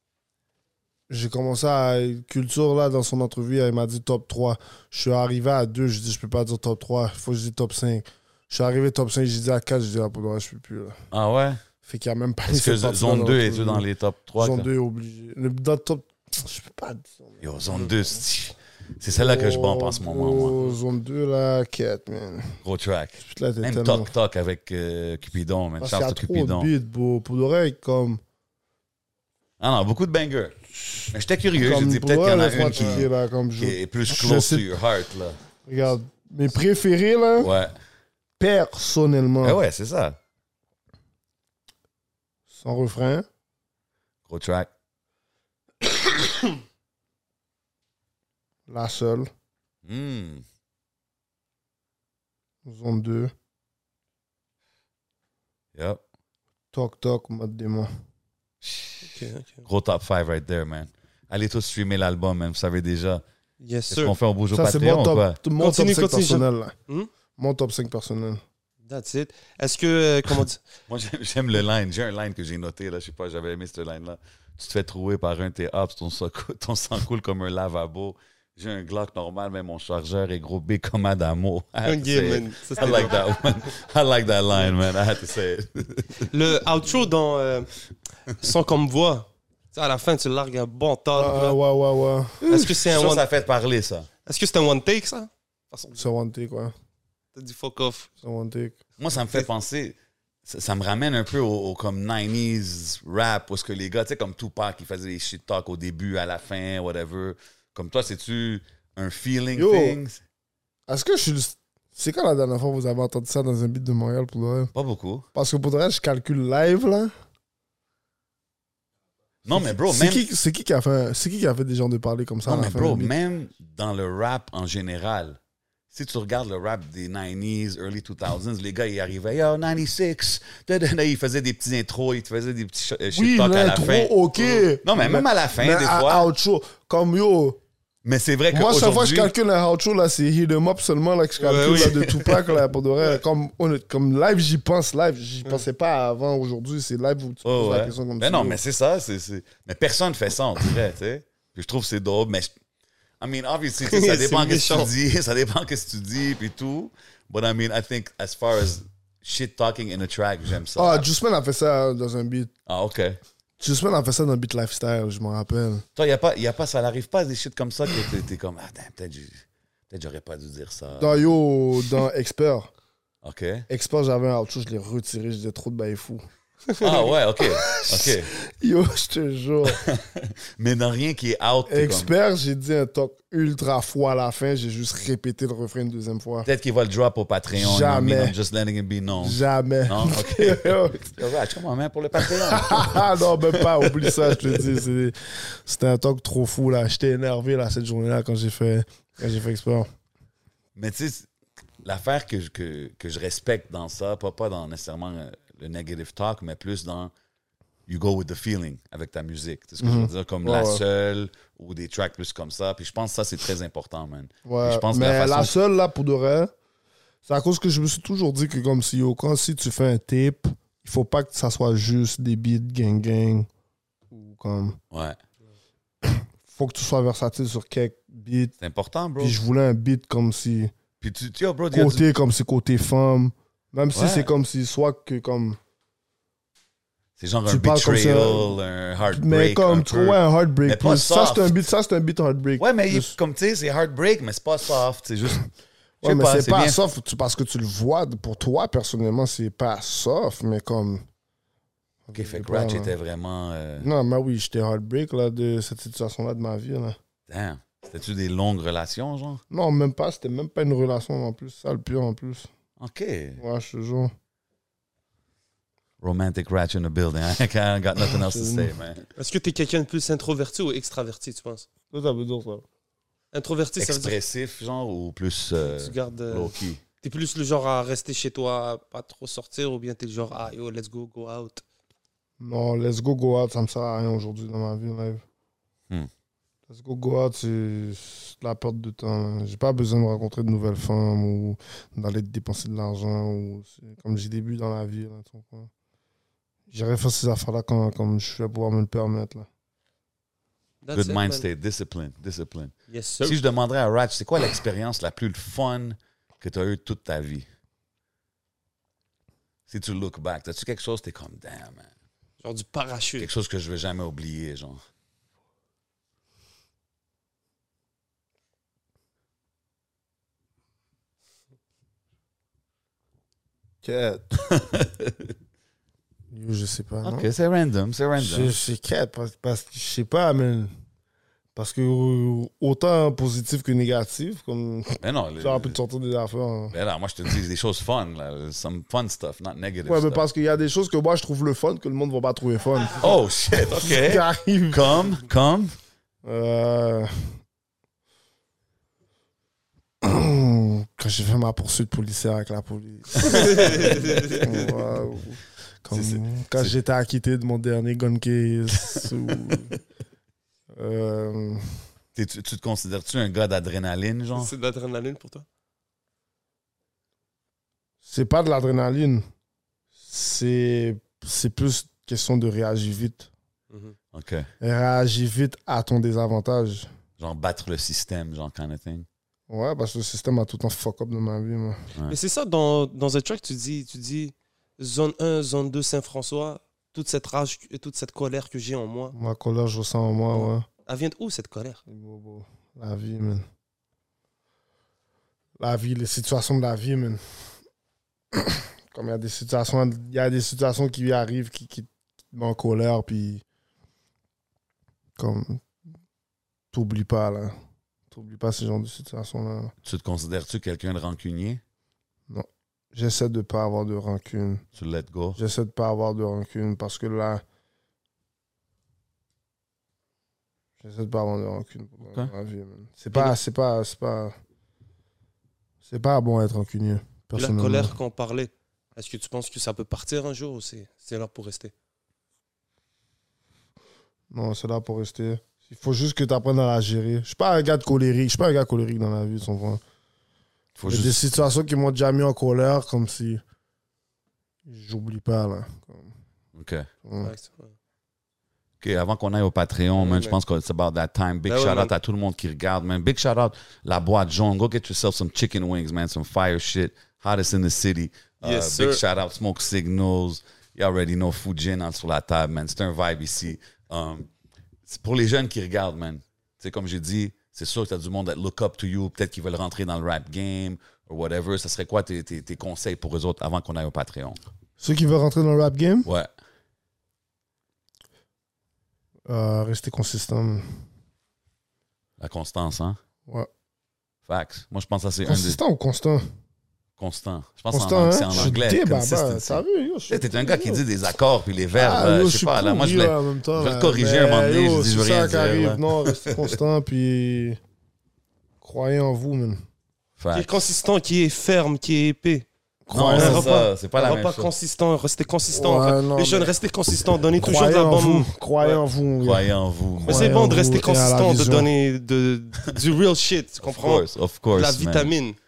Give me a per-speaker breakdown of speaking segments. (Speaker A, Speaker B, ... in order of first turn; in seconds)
Speaker A: 1.1-11.0, 11.8-13.8, 14.4-18.2, 19.1-22.6, 23.2-24.1, 25.8-28.2, 31.5-34.7, 35.6-37.5, 38.4-39.6, 42.5-43.2, 48.7-49.3, 52.6-53.3, 56.7-57.9, 64.5-66.7, 67.4-68.4, 91.2-92.5, 96.0-96.7, 98.2-98.8, 109.5-110.0, 110.9-114.7, 115.3-117.1, 119.5-123.1, 133.1-137.6, 138.5-148.6, 160.7-162.5, 163.6-165.8, 171.0-172.7, 173.7-176.2, 177.4-179.8, 181.7-186.5, 187.5-188.3, 189.2-191.1, 192.2-199.9, 209.8-210.8, 214.4-216.5, 217.2-223.5, 224.1-224.8, 226.0-228.5, 229.2-230.7, 231.7-235.6, 237.5-238.6, 239.1-243.1, 246.0-251.1, 252.1-252.9, 253.8-257.0, 259.5-262.5, 263.4-264.1, 268.0-268.7, 271.9-272.6, 282.4-285.2, 286.7-295.7, 296.7-299.5, 323.8-324.4, 326.3-327.3, 328.2-330.7, 331.5-336.7, 339.9-343.1, 343.7-345.0, 346.2-347.4, 350.0-359.8, 360.7-361.8, 368.0-369.2, 370.0-373.3, 374.6-376.9, 379.5-381.8, 389.1-390.6, 391.9-393.4, 395.6-397.2, 398.3-403.4, 405.2-405.6, 406.7-407.5, 408.1-409.7, 412.3-414.6, 415.4-417.4, 420.8-424.3, 425.8-427.9, 434.3-439.8, 440.9-443.4, 444.6-446.1, 447.0-447.3, 474.8-476.1, 479.3-480.9, 485.2-486.2, 487.7-490.8, 491.7-497.6, 498.6-499.6, 502.8-503.7, 505.5-506.5, 507.4-511.7
Speaker B: 11.1-11.6, 12.5-14.7, 17.4-20.6, 22.6-26.7, 29.6-35.4, 37.4-37.7, 39.4-40.2, 44.3-44.7, 49.8-50.4, 55.7-56.0, 58.6-63.2, 63.9-65.4, 70.9-86.3, 92.6-94.1, 99.0-110.2, 114.7-115.2, 119.4-120.2, 122.4-125.4, 125.9-134.2, 134.8-136.3, 138.0-139.3, 141.7-142.4, 147.4-152.5, 153.2-161.1, 162.7-163.2, 165.9-171.3, 173.2-173.7, 176.8-178.3, 179.7-182.1, 186.4-194.7, 200.7-201.3, 201.8-207.1, 207.9-215.5, 224.9-225.2, 228.6-229.4, 231.0-232.0, 233.9-234.3, 237.2-241.6, 242.6-245.5, 246.0-246.8, 252.1-253.9, 257.3-259.4, 262.8-263.4, 266.0-269.1, 273.8-276.8, 300.9-307.5, 309.7-311.9, 313.2-314.8, 324.5-325.3, 327.0-328.5, 335.0-335.8, 336.7-340.2, 342.9-345.7, 353.1-354.4, 355.9-356.7, 358.8-359.5, 362.1-364.5, 374.1-374.5, 377.2-379.1, 409.8-411.6, 414.8-415.4, 440.8-441.2, 446.5-446.9, 448.8-464.3, 464.9-474.4, 482.2-483.0, 484.3-485.6, 487.0-496.6, 500.2-500.7, 502.9-504.5, 509.2-510.4, 513.6-515.1
Speaker C: 59.0-59.6, 63.6-64.1, 65.6-67.1, 68.8-70.6, 81.8-83.2, 86.3-87.7, 88.3-91.6, 92.4-93.2, 94.2-96.0, 97.3-98.1, 141.4-142.1, 153.8-154.9, 269.2-271.7, 273.3-274.1, 275.7-281.6, 300.8-301.4, 302.9-303.4, 312.4-313.3, 353.2-354.7, 364.3-365.4, 382.1-389.1, 390.3-391.8, 427.4-431.7, 447.2-447.7, 450.0-450.4, 451.5-451.9, 458.4-459.0, 500.3-502.4, 503.1-508.8, 510.0-515.4